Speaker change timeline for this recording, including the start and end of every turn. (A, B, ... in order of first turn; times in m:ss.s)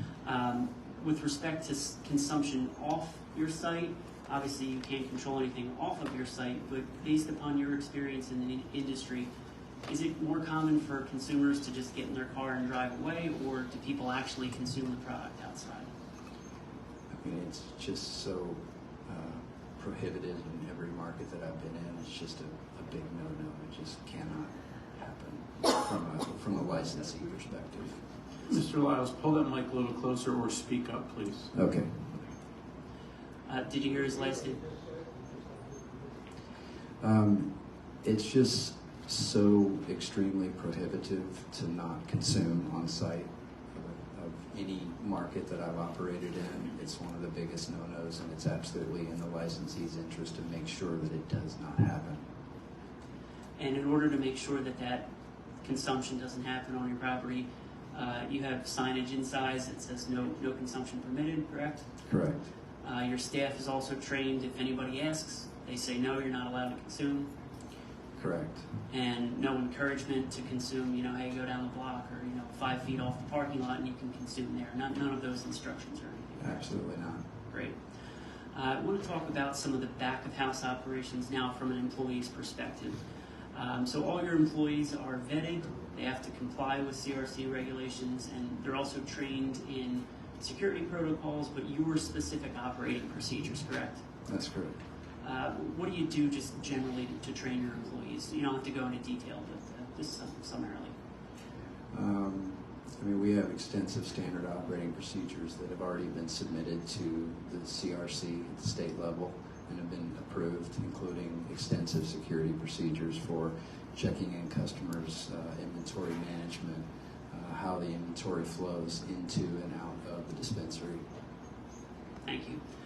0:00.2-0:09.3 A
0:09.9-0:15.9 A
0:17.1-0:28.0 B
0:28.5-0:31.5 C
0:31.5-0:32.2 B
0:33.5-0:34.7 A
0:37.0-0:52.2 B
0:53.6-0:55.1 A
0:55.6-1:01.9 A
1:02.1-1:02.4 B
1:02.8-1:07.3 A
1:08.2-1:08.6 B
1:08.9-1:16.7 A
1:16.4-1:17.2 B
1:17.5-1:17.8 A
1:18.5-1:23.0 A
1:23.5-1:34.0 A
1:34.3-1:34.8 B
1:35.2-1:40.9 A
1:41.9-2:01.0 B
2:02.2-2:02.6 A